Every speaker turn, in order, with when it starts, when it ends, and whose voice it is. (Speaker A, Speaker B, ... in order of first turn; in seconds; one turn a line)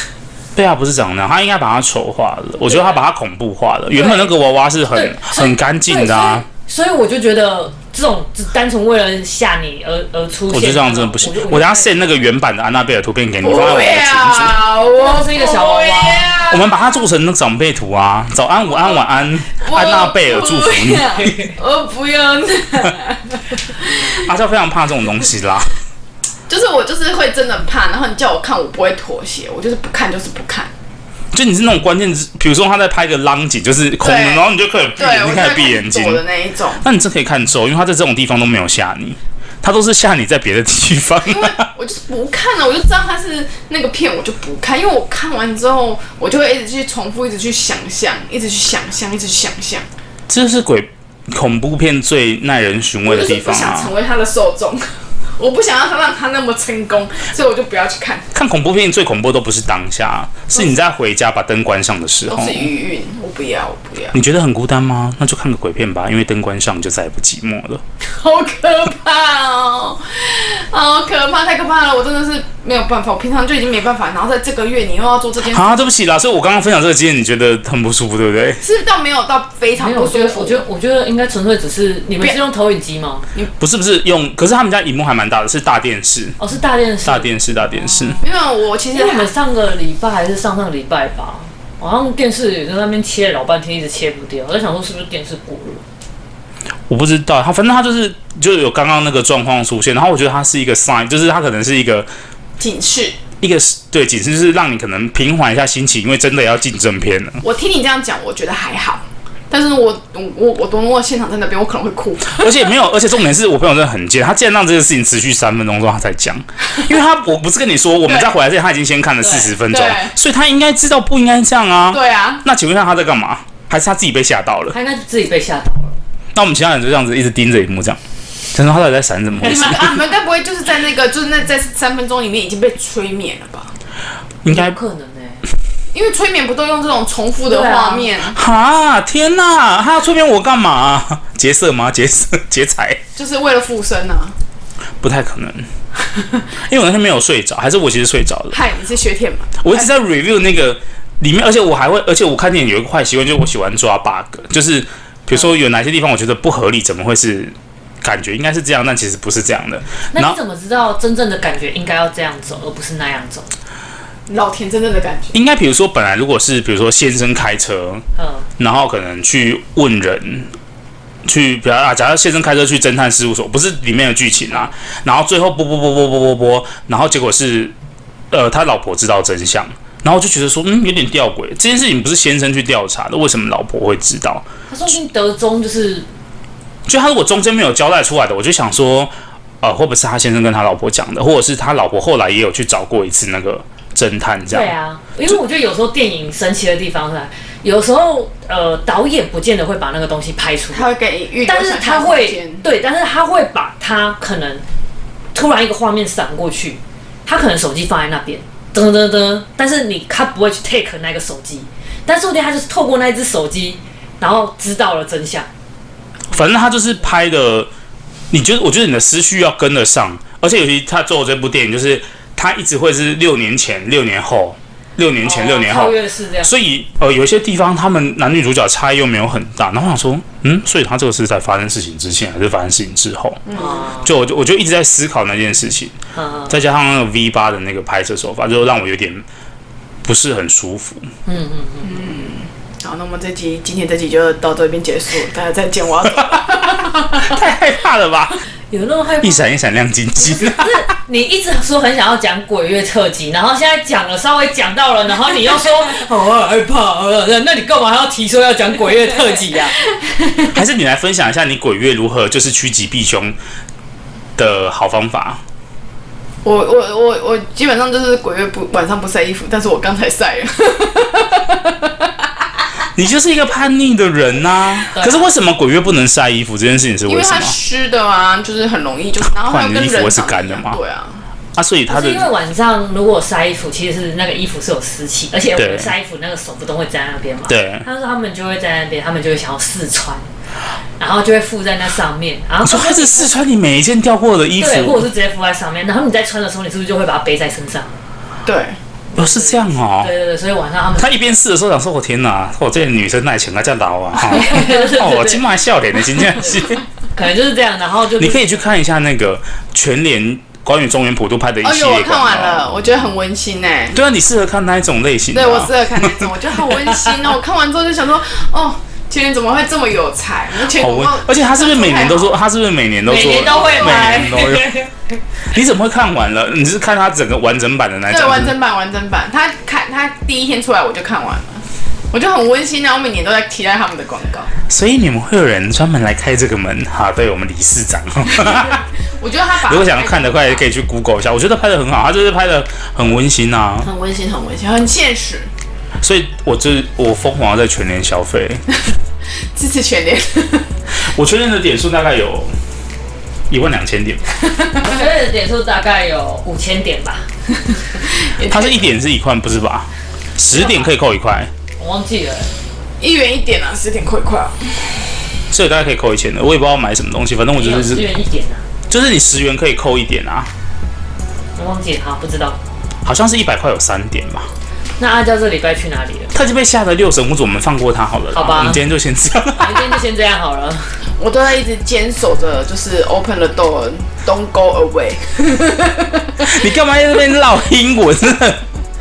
Speaker A: 0.5-6.5
Speaker B: 3.9-4.3
Speaker B: 4.9-11.9
Speaker A: 10.5-14.6
Speaker C: 13.4-16.8
Speaker B: 14.9-16.3
Speaker A: 16.5-21.4
Speaker C: 18.7-19.0
Speaker C: 19.6-24.3
Speaker B: 21.2-21.5
Speaker A: 24.1-25.7
Speaker C: 26.5-30.7
Speaker A: 31.3-36.2
Speaker C: 34.0-36.8
Speaker A: 36.8-41.7
Speaker C: 41.3-49.9
Speaker A: 50.3-53.9
Speaker C: 53.0-54.9
Speaker C: 55.4-58.3
Speaker A: 58.3-62.7
Speaker C: 60.5-60.8
Speaker C: 62.3-64.2
Speaker A: 64.1-67.8
Speaker C: 68.1-75.9
Speaker A: 75.5-78.6
Speaker C: 78.6-80.6
Speaker B: 79.8-83.3
Speaker A: 83.6-86.4
Speaker B: 86.4-88.2
Speaker A: 87.0-88.2
Speaker C: 88.2-89.3
Speaker B: 88.9-95.8
Speaker A: 96.9-102.1
Speaker C: 102.6-103.2
Speaker A: 103.4-107.4
Speaker C: 107.4-112.6
Speaker A: 112.3-124.8
Speaker C: 118.0-118.3
Speaker B: 119.2-119.5
Speaker C: 119.7-120.1
Speaker C: 121.9-122.4
Speaker B: 124.7-126.0
Speaker A: 126.3-128.0
Speaker A: 128.5-130.0
Speaker C: 129.4-133.8
Speaker A: 134.4-134.8
Speaker B: 134.5-135.4
Speaker C: 135.9-138.3
Speaker B: 137.4-138.1
Speaker A: 138.3-143.0
Speaker C: 143.2-144.3
Speaker A: 145.0-145.7
Speaker C: 146.1-146.4
Speaker A: 146.6-148.6
Speaker C: 148.5-149.9
Speaker A: 149.6-160.4
Speaker B: 160.1-163.5
Speaker C: 164.3-165.3
Speaker A: 165.3-168.0
Speaker B: 168.2-168.4
Speaker A: 168.6-170.5
Speaker A: 171.2-177.7
Speaker A: 178.3-184.5
Speaker B: 184.7-186.1
Speaker A: 186.9-194.7
Speaker B: 194.5-200.9
Speaker C: 200.7-202.6
Speaker B: 201.5-204.6
Speaker B: 205.3-215.5
Speaker A: 216.3-217.7
Speaker A: 218.3-235.9
Speaker B: 225.2-226.6
Speaker C: 233.5-233.8
Speaker B: 233.5-234.1
Speaker B: 236.1-236.6
Speaker A: 236.5-239.2
Speaker A: 240.0-241.1
Speaker B: 241.2-242.1
Speaker C: 241.8-247.4
Speaker A: 247.1-248.4
Speaker B: 248.7-249.5
Speaker A: 249.2-250.8
Speaker B: 250.2-259.8
Speaker A: 260.5-263.4
Speaker A: 264.4-265.4
Speaker C: 266.4-272.3
Speaker A: 272.9-277.5
Speaker B: 274.9-275.3
Speaker C: 277.1-281.2
Speaker A: 279.4-280.8
Speaker A: 281.6-282.3
Speaker B: 281.9-290.3
Speaker A: 285.6-285.9
Speaker A: 287.5-287.8
Speaker B: 291.0-293.3
Speaker A: 292.6-295.1
Speaker B: 294.6-297.9
Speaker C: 298.4-298.8
Speaker B: 299.1-301.1
Speaker A: 299.1-300.1
Speaker A: 301.0-306.8
Speaker B: 304.3-305.4
Speaker B: 307.1-308.7
Speaker A: 308.2-312.7
Speaker C: 311.6-314.0
Speaker A: 313.9-316.3
Speaker C: 315.3-322.3
Speaker A: 320.6-324.7
Speaker B: 323.1-325.2
Speaker C: 323.5-324.4
Speaker A: 325.5-328.6
Speaker C: 328.1-334.5
Speaker A: 334.7-338.8
Speaker C: 338.3-340.6
Speaker A: 339.6-343.9
Speaker C: 343.8-345.5
Speaker A: 346.0-348.6
Speaker C: 349.5-350.7
Speaker A: 351.0-352.5
Speaker A: 353.5-354.2
Speaker C: 354.4-355.0
Speaker B: 354.8-357.3
Speaker C: 358.0-358.8
Speaker A: 358.5-361.5
Speaker B: 360.5-360.9
Speaker B: 361.8-362.5
Speaker C: 363.0-365.1
Speaker A: 365.5-368.1
Speaker B: 367.6-368.6
Speaker A: 368.9-370.5
Speaker B: 371.6-372.6
Speaker A: 373.0-374.5
Speaker B: 375.0-376.3
Speaker A: 376.3-380.0
Speaker B: 378.3-378.8
Speaker B: 379.6-381.0
Speaker C: 381.2-386.5
Speaker A: 386.4-388.6